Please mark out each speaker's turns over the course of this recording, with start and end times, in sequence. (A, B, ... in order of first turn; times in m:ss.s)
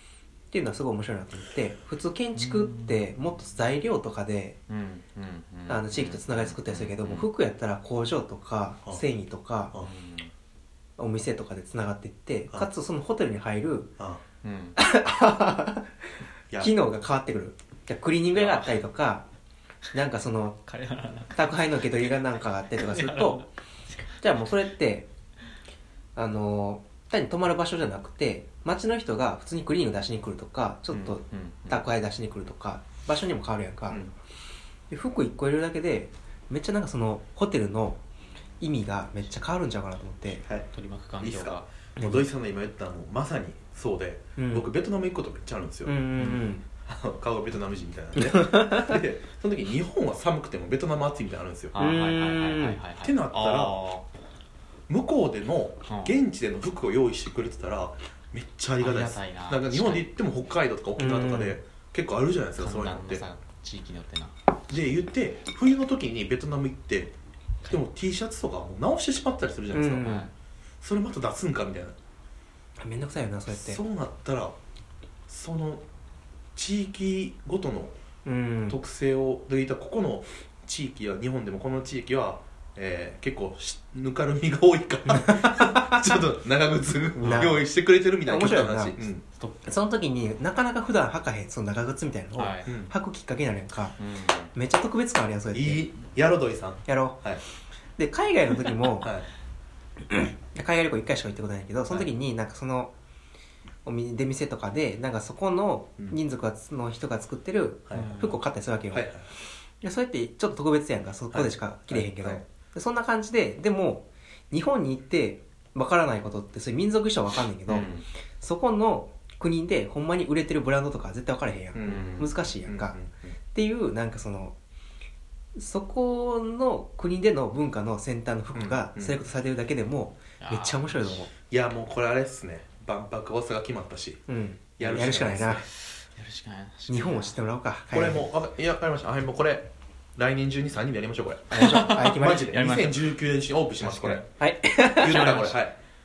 0:00.5-0:04.6 A
0:02.4-0:03.1 B
0:04.7-0:07.3 B
0:05.7-0:09.7 A
0:09.7-0:10.3 B
0:11.0-0:14.0 A
0:14.4-0:14.8 B
0:14.8-0:15.9 A
0:16.6-0:19.2 A
0:18.3-0:18.8 B
0:19.9-0:20.6 A
0:20.6-0:24.2 B
0:21.3-0:23.4 A
0:24.2-0:25.1 A
0:26.2-0:34.0 A
0:30.9-0:31.8 B
0:34.9-0:38.0 A
0:38.6-0:40.4 A
0:40.7-0:41.6 B
0:41.2-0:45.9 C
0:42.0-0:42.2 A
0:44.4-0:44.7 A
0:45.8-0:46.6 A
0:46.8-0:51.7 C
0:48.2-0:48.9 A
0:51.7-0:54.0 B
0:51.8-0:52.8 A
0:53.0-0:53.8 C
0:54.9-1:03.2 C
0:55.9-0:56.2 B
0:58.8-1:00.1 B
1:01.0-1:01.6 A
1:02.6-1:04.3 B
1:04.7-1:07.1 C
1:07.7-1:10.1 C
1:09.7-1:10.3 A
1:10.0-1:10.3 B
1:10.8-1:12.0 C
1:12.8-1:13.8 A
1:13.5-1:14.6 C
1:15.3-1:15.8 C
1:16.6-1:17.9 C
1:18.2-1:18.8 A
1:18.7-1:29.2 C
1:25.1-1:26.0 A
1:27.2-1:27.6 A
1:28.2-1:29.0 A
1:29.4-1:29.6 B
1:29.6-1:34.0 A
1:32.3-1:32.7 B
1:32.6-1:32.9 C
1:34.0-1:34.5 B
1:34.5-1:35.9 A
1:35.5-1:37.4 C
1:36.8-1:37.2 A
1:38.0-1:39.1 A
1:39.0-1:39.3 C
1:40.1-1:42.9 A
1:43.8-1:49.1 A
1:47.9-1:48.2 C
1:47.9-1:48.4 B
1:48.9-1:49.3 C
1:49.8-2:03.0 A
1:51.3-1:52.4 C
1:57.7-1:58.0 B
2:01.7-2:03.3 C
2:01.8-2:02.4 B
2:03.5-2:04.5 A
2:05.6-2:11.3 A
2:08.5-2:09.2 C
2:10.4-2:11.2 B
2:11.5-2:14.2 C
2:14.3-2:15.6 A
2:14.8-2:15.6 C
2:16.0-2:17.4 B
2:16.9-2:18.3 A
2:17.9-2:24.3 C
2:21.5-2:22.6 A
2:21.5-2:23.2 B
2:23.8-2:25.5 A
2:24.9-2:25.8 C
2:25.0-2:25.5 B